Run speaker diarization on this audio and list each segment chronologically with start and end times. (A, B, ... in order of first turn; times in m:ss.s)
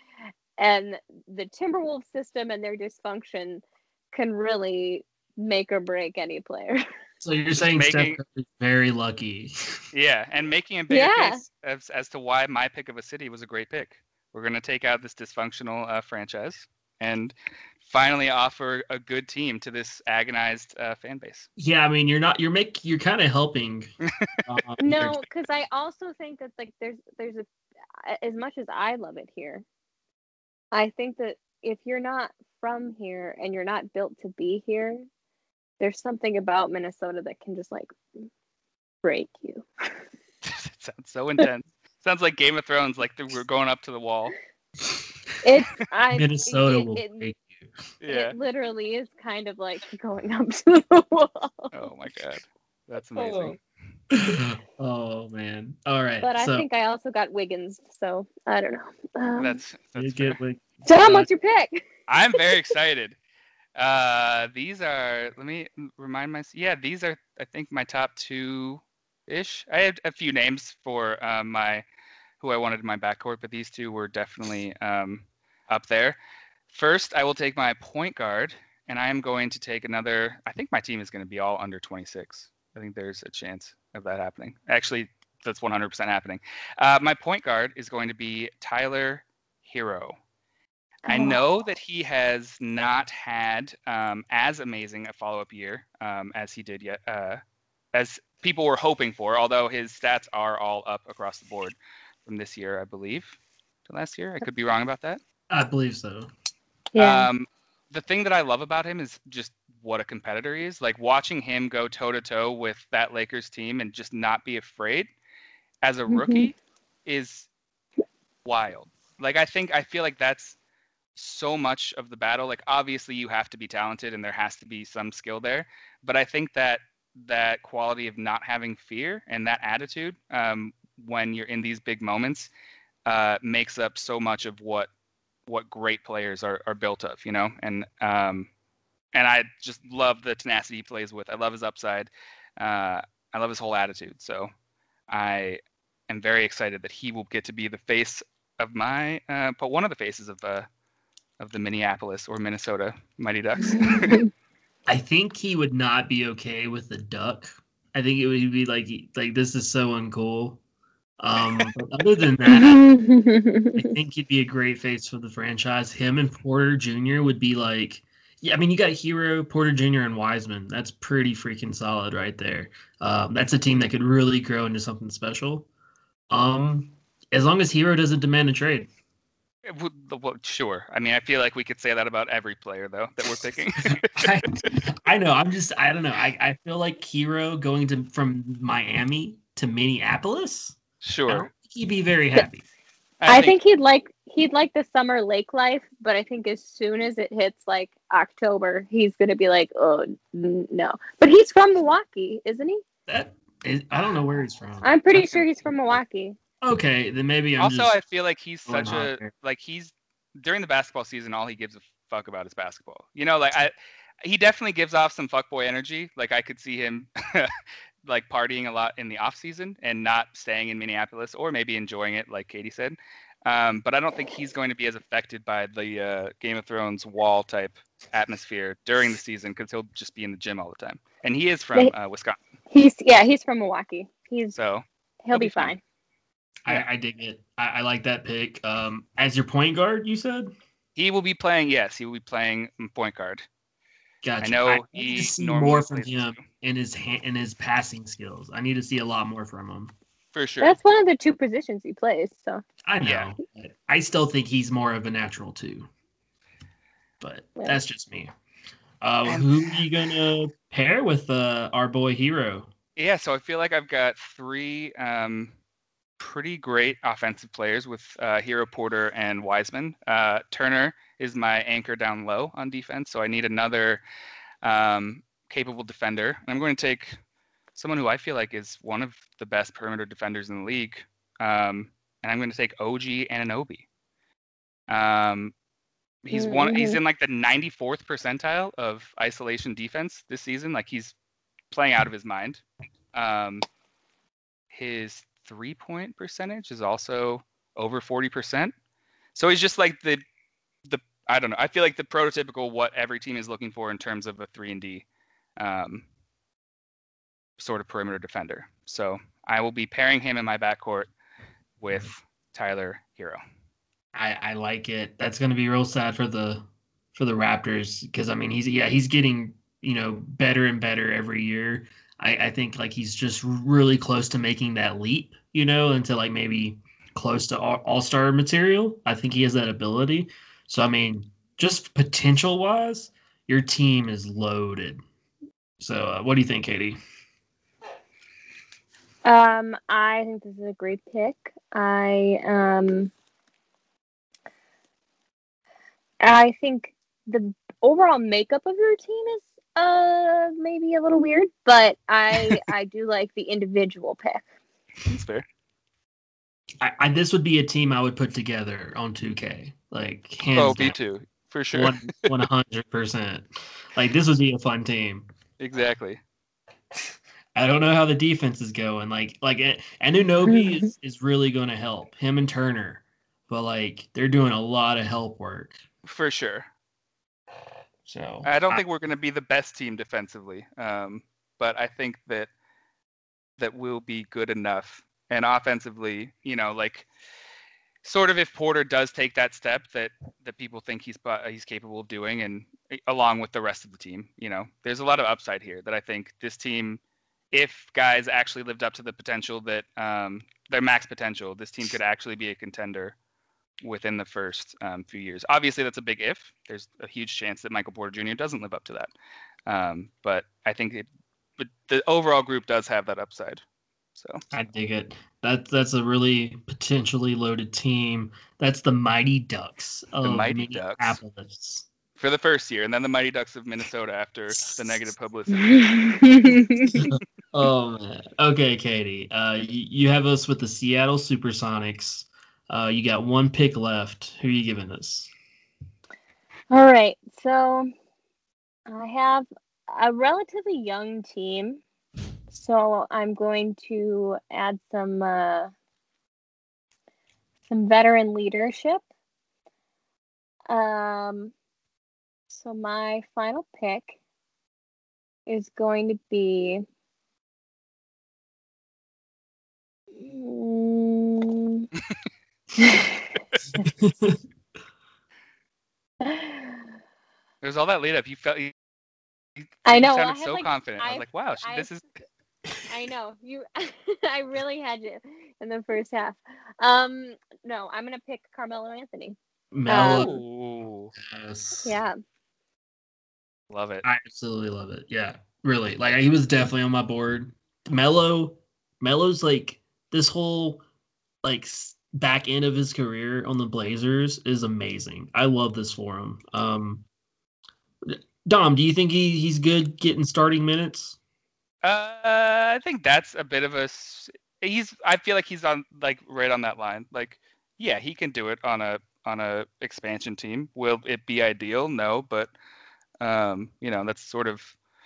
0:00.6-0:06.8 A
0:07.2-0:09.8 B
0:07.7-0:08.2 C
0:09.9-0:21.5 C
0:10.9-0:11.4 A
0:21.6-0:23.9 B
0:24.1-0:24.4 C
0:24.4-0:25.2 B
0:24.8-0:27.5 A
0:28.0-0:29.6 A
0:30.7-0:35.0 A
0:35.8-0:37.9 A
0:39.0-0:39.6 A
0:40.4-0:44.3 C
0:45.4-0:47.2 A
0:46.1-0:47.7 B
0:48.0-0:48.4 C
0:48.1-0:51.8 A
0:51.7-0:53.6 C
0:53.2-0:53.6 A
0:54.1-0:56.7 B
0:56.2-0:59.6 A
0:59.4-1:00.4 C
1:00.0-1:01.3 B
1:00.8-1:01.8 A
1:02.1-1:03.2 C
1:03.8-1:11.8 C
1:12.4-1:30.2 C
1:31.1-1:31.4 A
1:31.1-1:37.4 C
1:37.9-1:45.2 C
1:45.5-1:46.3 B
1:46.9-1:47.3 A
1:47.0-1:55.1 C
1:55.8-1:57.5 C
1:56.1-1:56.5 A
1:58.4-2:00.6 C
2:01.2-2:12.5 C
2:13.0-2:14.9 C
2:15.5-2:18.5 C
2:19.1-2:24.5 C
2:25.1-2:30.7 C
2:31.4-2:34.2 C
2:33.7-2:34.3 A
2:34.9-2:40.6 B
2:41.2-2:42.8 B
2:42.5-2:43.9 A
2:43.7-2:55.7 B
2:56.3-2:58.9 B
2:59.6-3:04.6 C
3:04.1-3:12.6 B
3:11.0-3:11.5 C
3:13.2-3:13.6 C
3:13.3-3:22.8 A
3:23.1-3:25.5 B
3:24.8-3:26.4 A
3:26.6-3:27.9 B
3:27.6-3:52.4 C
3:28.6-3:29.3 B
3:52.7-3:54.6 A
3:54.5-3:55.7 C
3:55.2-3:55.8 A
3:56.6-4:00.5 B
4:01.0-4:03.5 C
4:04.2-4:09.9 B
4:04.4-4:06.4 C
4:10.3-4:10.8 C
4:10.6-4:12.6 A
4:12.8-4:15.9 B
4:13.0-4:13.3 C
4:17.2-4:18.3 B
4:19.0-4:22.7 B
4:19.2-4:19.8 C
4:23.0-4:25.5 C
4:26.2-4:34.0 C
4:34.6-4:37.2 C
4:37.7-4:43.8 C
4:44.9-4:45.5 C
4:46.2-4:51.1 C
4:46.3-4:47.0 A
4:51.7-4:52.6 C
4:53.1-4:53.6 C
4:54.7-4:58.7 C
4:59.3-5:00.2 C
5:00.8-5:05.1 C
5:05.6-5:06.0 C
5:07.6-5:11.1 C
5:11.8-5:13.4 C
5:14.1-5:35.0 B
5:35.8-5:37.0 B
5:39.2-5:43.1 A
5:46.2-5:54.4 A
5:55.0-5:55.4 C
5:56.8-6:01.0 B
6:00.5-6:02.3 C
6:01.7-6:05.2 B
6:05.6-6:06.2 C
6:07.5-6:15.8 B
6:10.5-6:10.9 A
6:16.0-6:16.7 C
6:18.0-6:18.8 B
6:18.4-6:22.5 C
6:23.6-6:27.1 C
6:28.0-6:37.0 C
6:37.5-6:43.2 C
6:43.8-6:49.1 C
6:49.7-6:53.6 C
6:54.2-6:54.4 C
6:54.5-7:01.9 B
7:00.2-7:01.2 C
7:02.2-7:06.1 C
7:05.6-7:07.1 A
7:07.0-7:15.3 B
7:16.7-7:17.9 A
7:18.9-7:21.8 A
7:22.5-7:25.7 A
7:27.7-7:29.0 A
7:30.7-7:31.5 A
7:32.5-7:34.2 A
7:35.5-7:36.8 A
7:40.2-7:41.9 A
7:42.8-7:43.9 A
7:44.0-7:44.4 B
7:46.2-7:46.8 A
7:47.6-7:48.7 C
7:49.8-7:52.0 C
7:49.8-7:51.9 A
7:52.9-8:00.3 A
7:59.7-8:00.4 B
8:00.0-8:01.1 C
8:01.2-8:02.0 B
8:01.8-8:02.1 A
8:03.7-8:04.0 C
8:04.0-8:10.8 B
8:11.4-8:17.0 B
8:18.0-8:21.2 B
8:21.8-8:32.5 C
8:33.2-8:34.8 C